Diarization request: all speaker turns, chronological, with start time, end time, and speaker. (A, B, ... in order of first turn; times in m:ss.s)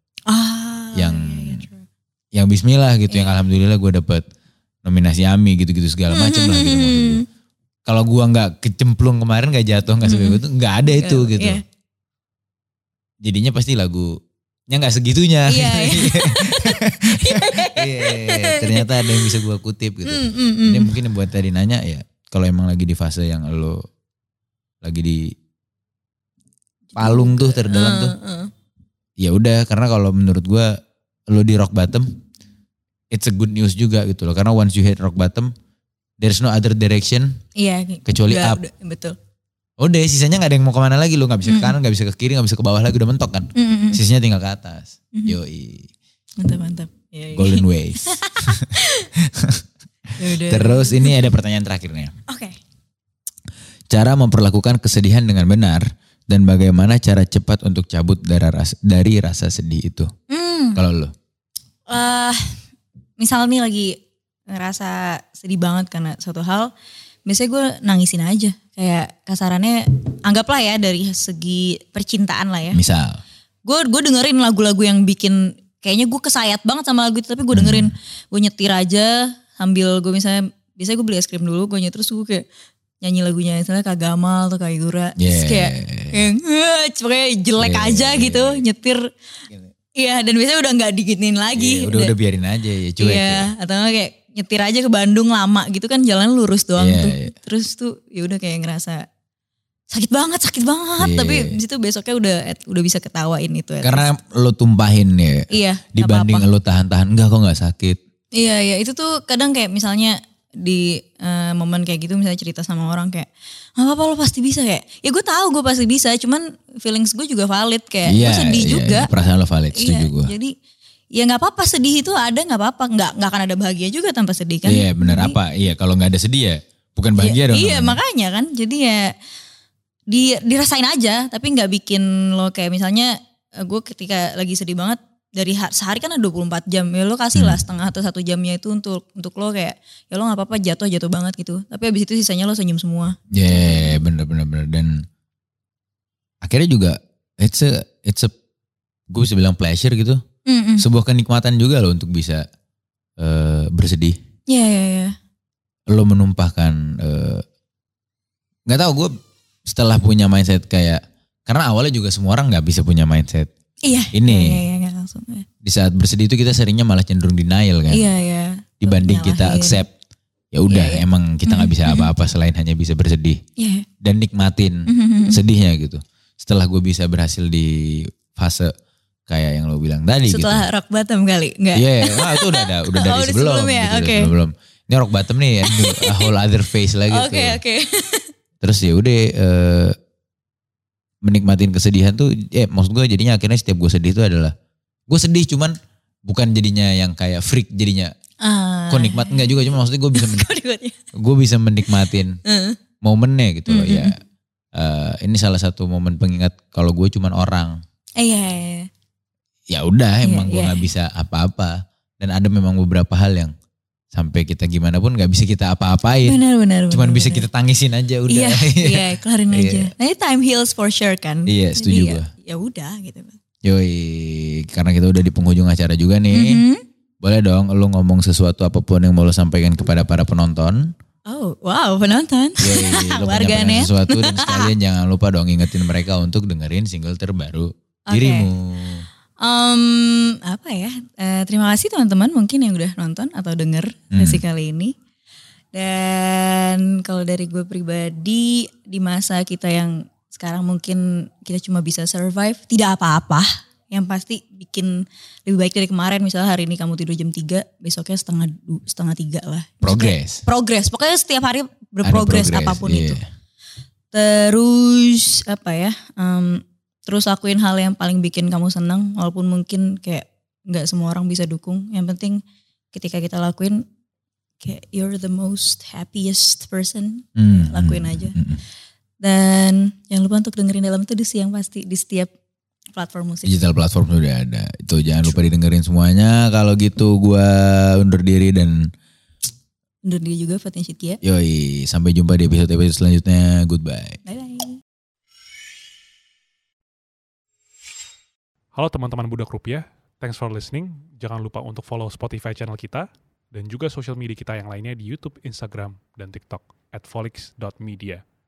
0:00.3-0:01.8 A
0:00.9-0:01.6 B
0:02.3-0:04.2 B
0:03.1-0:03.4 A
0:04.8-0:07.2 B
0:06.1-0:07.2 A
0:07.8-0:11.6 B
0:10.0-0:11.6 A
0:13.2-0:14.1 B
0:14.7-0:23.8 B
0:15.5-0:19.3 A
0:20.0-0:20.9 A
0:24.8-0:25.3 B
0:26.9-0:28.5 A
0:27.0-0:28.1 B
0:29.2-0:30.7 B
0:31.3-0:32.1 B
0:33.1-0:35.5 B
0:36.2-0:37.4 B
0:37.6-0:39.2 A
0:38.1-0:38.6 B
0:39.8-0:45.9 B
0:41.4-0:41.7 A
0:43.6-0:44.0 A
0:46.4-0:49.1 A
0:47.3-0:49.6 B
0:50.2-0:51.2 A
0:50.2-0:52.1 B
0:52.3-0:52.6 A
0:53.9-1:00.1 B
1:00.3-1:00.8 A
1:00.7-1:01.1 B
1:01.9-1:02.5 A
1:03.2-1:04.0 A
1:04.5-1:06.7 A
1:07.3-1:12.8 A
1:12.7-1:13.2 B
1:13.6-1:22.4 A
1:17.5-1:17.9 B
1:23.0-1:29.1 A
1:25.2-1:26.2 B
1:27.6-1:28.6 B
1:30.0-1:32.1 A
1:31.6-1:33.5 B
1:33.0-1:39.0 A
1:36.8-1:37.3 B
1:39.9-1:44.1 A
1:41.0-1:41.6 B
1:43.8-1:48.0 B
1:45.5-1:46.5 A
1:48.3-1:59.1 A
1:58.0-2:00.3 B
1:59.7-2:00.5 A
2:01.1-2:05.4 A
2:04.6-2:08.0 B
2:07.2-2:09.1 A
2:10.1-2:24.0 A
2:17.3-2:17.6 B
2:23.3-2:25.0 B
2:26.4-2:28.3 B
2:29.1-2:30.2 B
2:30.4-2:30.8 A
2:30.8-2:32.4 B
2:33.2-2:34.2 B
2:34.5-2:35.1 A
2:35.9-2:37.4 B
2:38.7-2:39.1 B
2:39.6-2:43.5 B
2:43.8-2:45.5 A
2:44.1-2:44.6 B
2:45.6-2:48.0 B
2:47.9-2:49.8 A
2:48.8-2:49.9 B
2:50.5-2:53.4 B
2:50.7-2:52.1 A
2:53.6-2:53.8 A
2:54.0-2:58.7 B
2:54.9-2:55.4 A
2:59.3-3:00.6 B
3:00.3-3:04.3 A
3:01.7-3:07.6 B
3:05.6-3:06.3 A
3:07.1-3:08.3 A
3:08.6-3:10.0 B
3:11.2-3:14.5 B
3:15.1-3:15.7 B
3:16.2-3:18.1 B
3:18.4-3:21.0 A
3:18.9-3:20.5 B
3:21.2-3:22.4 B
3:22.4-3:22.8 A
3:23.0-3:24.2 B
3:23.7-3:24.1 A
3:24.7-3:27.8 B
3:28.2-3:28.9 A
3:29.7-3:33.5 B
3:30.2-3:30.9 A
3:34.1-3:36.4 B
3:36.2-3:37.5 A
3:36.9-3:39.9 B
3:38.3-3:43.4 A
3:41.5-3:42.3 B
3:43.6-3:46.6 B
3:46.3-3:46.8 A
3:47.2-3:50.9 B
3:51.3-3:54.7 A
3:52.6-3:59.0 B
3:58.1-3:58.5 A
3:59.4-4:04.9 A
4:04.1-4:04.4 B
4:05.7-4:23.2 A
4:19.8-4:20.4 B
4:22.0-4:23.2 B
4:24.1-4:32.4 A
4:32.9-4:33.8 A
4:34.6-4:38.3 A
4:37.4-4:38.6 B
4:39.2-4:42.3 A
4:42.9-4:43.6 A
4:43.4-4:48.9 B
4:50.0-4:51.2 A
4:51.2-4:54.2 B
4:54.2-4:54.8 A
4:58.7-5:08.2 C